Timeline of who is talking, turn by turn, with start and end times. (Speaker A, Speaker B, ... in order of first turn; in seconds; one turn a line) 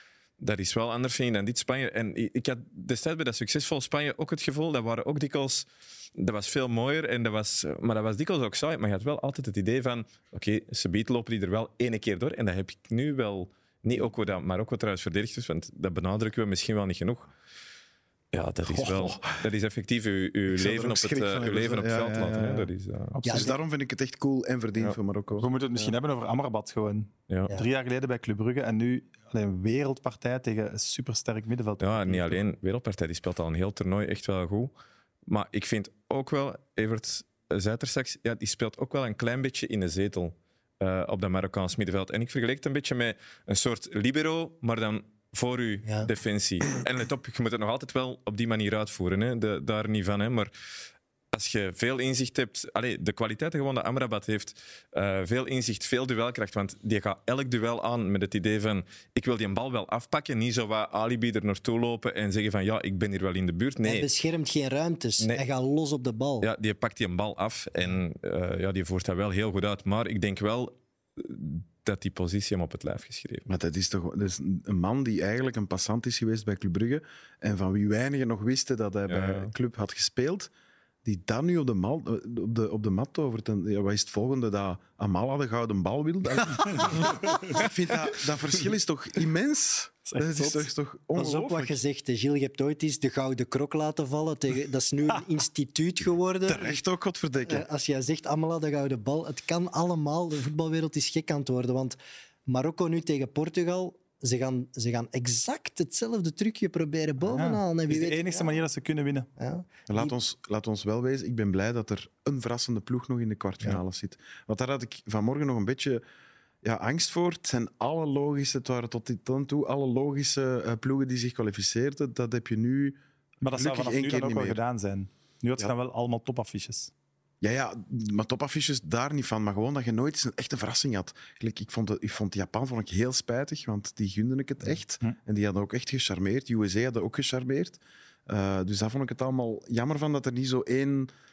Speaker A: 0.4-17.3
Speaker A: 18.3-23.2
Speaker B: 18.6-19.4
Speaker B: 20.5-22.7
Speaker C: 23.2-23.5
Speaker D: 23.2-23.5
Speaker B: 23.3-25.5
Speaker C: 25.4-32.4
Speaker A: 31.8-34.7
Speaker A: 35.3-50.5
Speaker D: 45.8-46.1
Speaker A: 51.3-64.1
Speaker D: 63.8-66.5
Speaker A: 66.4-73.5
Speaker B: 73.5-80.5
Speaker A: 79.1-79.5
Speaker B: 81.0-91.8
Speaker C: 90.1-90.7
Speaker D: 91.1-96.8
Speaker B: 96.5-97.7
Speaker D: 97.5-108.6
Speaker C: 107.2-109.3
Speaker D: 109.4-110.1
Speaker B: 109.9-116.0
Speaker B: 116.6-124.6
Speaker C: 123.4-126.9
Speaker B: 127.4-141.1